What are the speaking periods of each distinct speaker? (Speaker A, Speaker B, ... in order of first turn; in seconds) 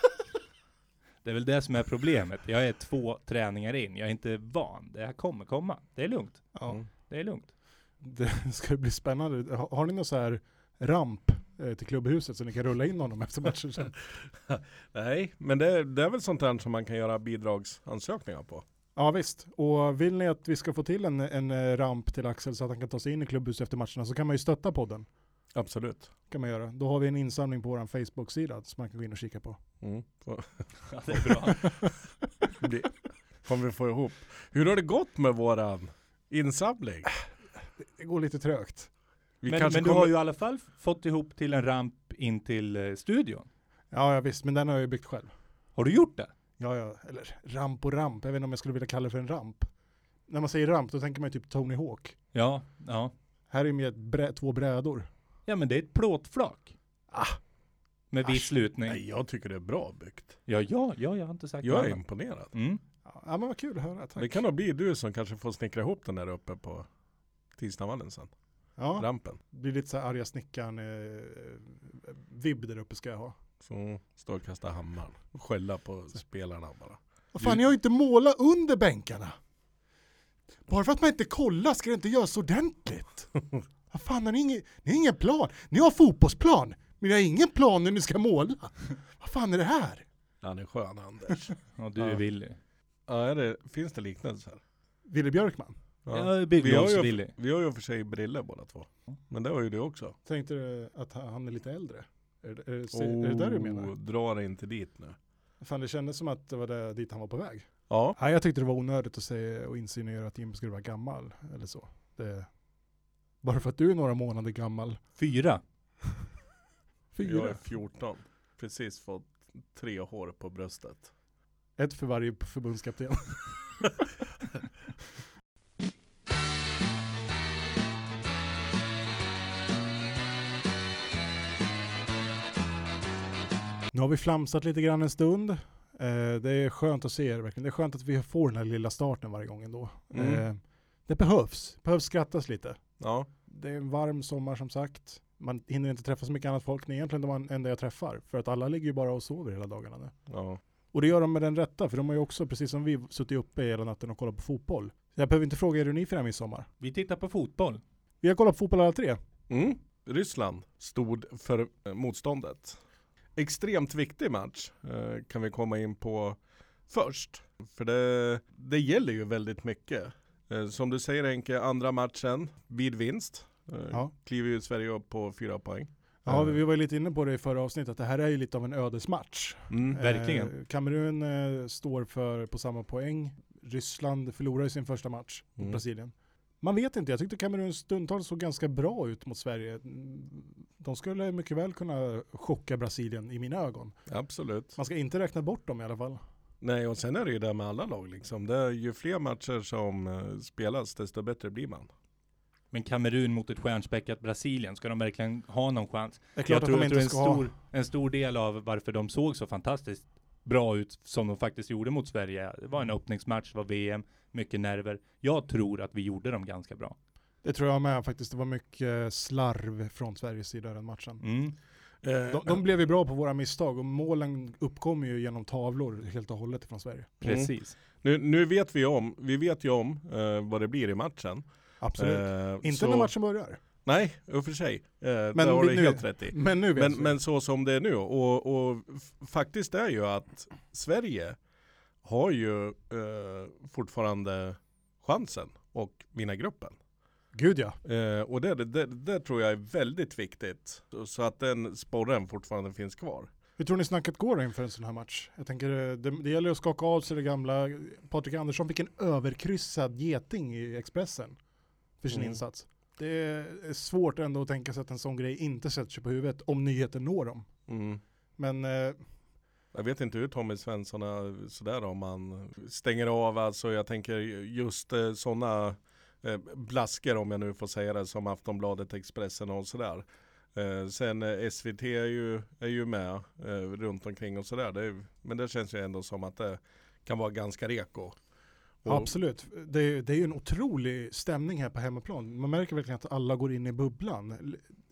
Speaker A: 1.2-7.5, 30.9-31.7, 39.5-43.5, 45.8-46.3, 52.3-53.1, 55.5-56.7, 58.1-59.0, 60.5-62.0, 62.5-62.8, 91.8-92.6, 96.1-97.3, 115.2-115.6, 156.8-157.8, 180.0-180.5, 202.7-217.0, 221.2-221.6, 227.2-227.8
Speaker B: 8.0-13.9, 19.0-25.1, 26.3-29.6, 37.8-38.9, 43.9-45.3, 46.6-49.7, 50.3-52.1, 53.5-55.1, 63.0-64.4, 68.8-73.4, 77.3-79.3, 80.7-83.3, 83.9-90.1, 95.1-95.8, 100.3-103.9, 105.6-112.5, 113.4-115.0, 117.1-117.6, 121.8-124.0, 133.9-142.8, 143.5-150.1, 150.9-156.7, 158.2-159.2, 176.2-193.9, 194.8-196.2, 206.4-207.5, 217.4-221.2, 222.3-227.1, 231.8-233.6, 235.3-237.1, 247.3-247.8, 253.6-261.4, 262.0-267.5, 268.4-269.0, 288.9-294.7
Speaker C: 14.5-18.6, 25.5-26.1, 29.8-30.7, 32.6-37.2, 39.4-40.1, 58.9-60.4, 61.6-62.5, 64.2-66.9, 67.6-68.3, 69.0-69.4, 73.6-77.5, 90.4-92.2, 93.1-94.6, 96.0-100.2, 102.9-105.2, 107.9-108.2, 117.2-121.1, 140.1-140.4, 143.0-143.3, 150.3-150.6, 159.5-162.8, 163.4-166.4, 166.9-176.6, 179.7-180.0, 194.1-194.7, 196.6-201.9, 222.0-222.6, 227.2-231.4, 232.0-233.1, 233.8-241.4, 242.0-246.8, 247.8-253.3, 262.1-262.4, 267.7-268.0, 269.7-288.2, 288.8-289.1